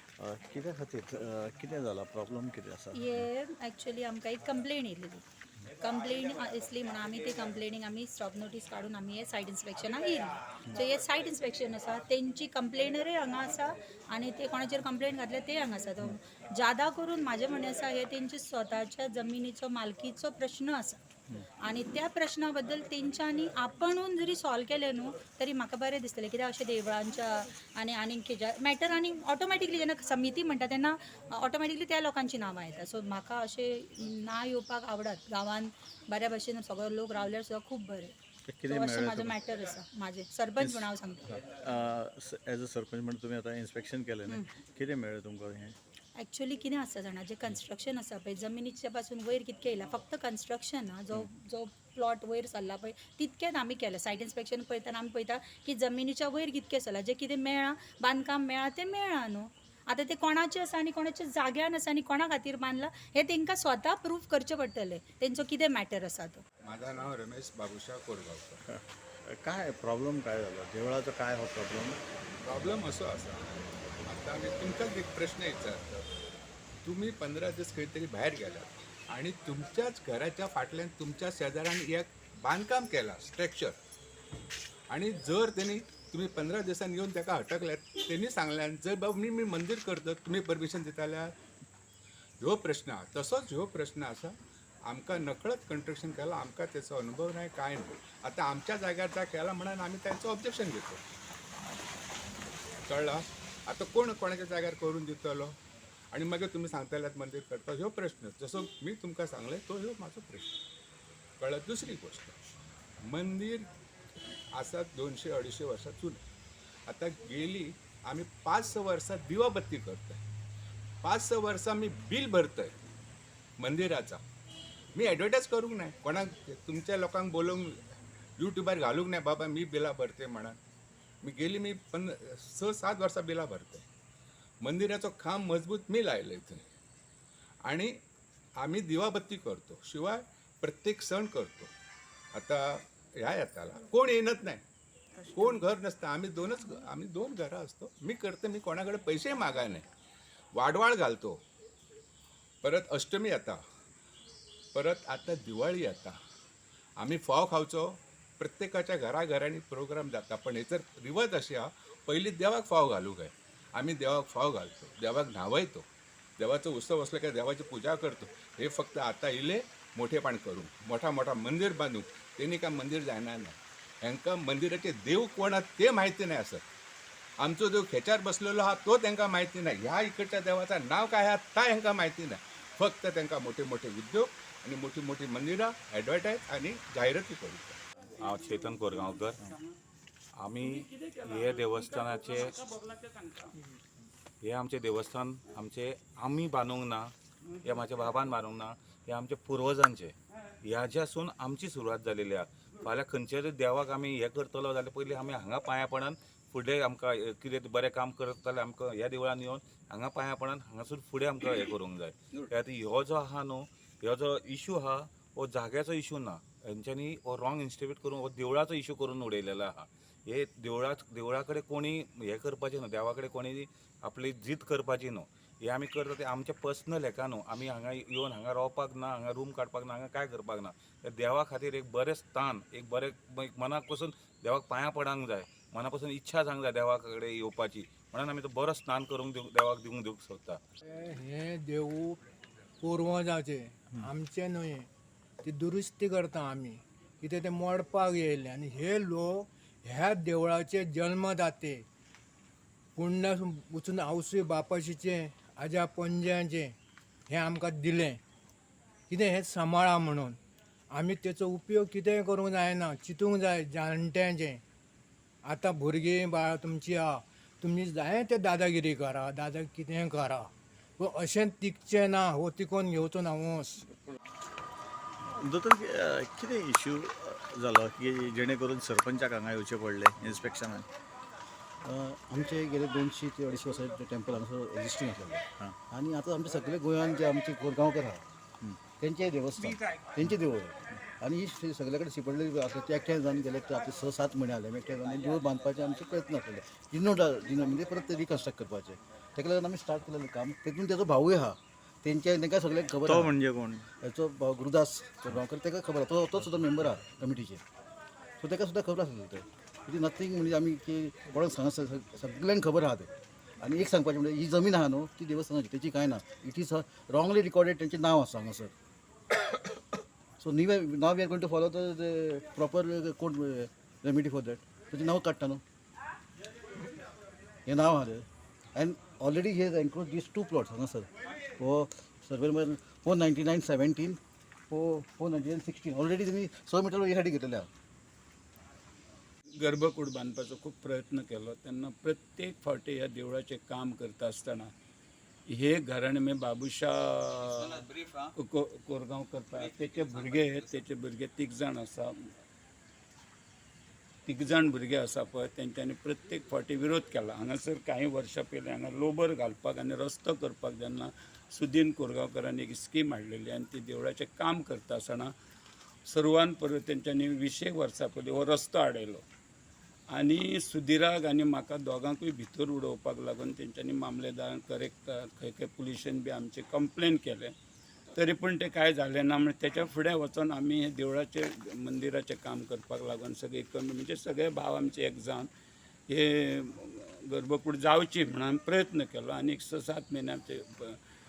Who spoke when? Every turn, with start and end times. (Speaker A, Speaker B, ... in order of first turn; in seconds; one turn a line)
Speaker A: 0.2-3.2
Speaker B: 2.9-21.0
Speaker B: 21.6-38.1
Speaker A: 38.5-39.4
Speaker B: 38.7-41.3
Speaker A: 40.6-45.8
Speaker B: 46.2-66.4
Speaker C: 66.6-68.6
Speaker A: 68.7-72.0
Speaker C: 72.4-73.5
Speaker C: 74.1-76.0
Speaker C: 76.8-83.8
Speaker C: 84.9-91.3
Speaker C: 92.4-94.3
Speaker C: 94.9-101.0
Speaker C: 102.9-105.5
Speaker C: 106.1-110.6
Speaker C: 111.4-112.3
Speaker C: 113.0-113.7
Speaker C: 114.6-116.2
Speaker C: 116.9-120.2
Speaker C: 121.0-122.7
Speaker C: 123.6-124.2
Speaker C: 125.0-127.7
Speaker C: 128.4-130.6
Speaker C: 131.2-133.9
Speaker C: 134.6-136.6
Speaker C: 138.6-141.7
Speaker C: 142.3-144.6
Speaker C: 145.3-149.9
Speaker C: 150.6-151.4
Speaker C: 152.6-153.6
Speaker C: 154.7-156.2
Speaker C: 157.0-165.9
Speaker C: 166.4-176.6
Speaker C: 177.4-187.8
Speaker D: 188.2-189.4
Speaker D: 190.4-192.7
Speaker E: 193.0-193.4
Speaker D: 194.4-197.1
Speaker D: 197.6-240.6
Speaker F: 240.8-242.2
Speaker F: 242.8-244.9
Speaker F: 245.4-251.9
Speaker F: 253.0-256.8
Speaker F: 257.3-258.2
Speaker F: 259.1-260.4
Speaker F: 260.9-264.6
Speaker F: 265.4-273.8
Speaker A: 275.4-280.9
Speaker G: 281.8-288.3
Speaker G: 289.0-303.4
Speaker A: 303.1-303.9
Speaker G: 304.0-307.6
Speaker G: 308.4-318.7
Speaker G: 320.4-325.6
Speaker G: 327.7-334.2
Speaker G: 334.7-337.7
Speaker E: 339.6-344.7
Speaker E: 345.5-352.1
Speaker E: 354.3-365.3
Speaker E: 366.1-369.2
Speaker E: 370.1-377.5
Speaker E: 378.2-385.5
Speaker E: 386.1-391.0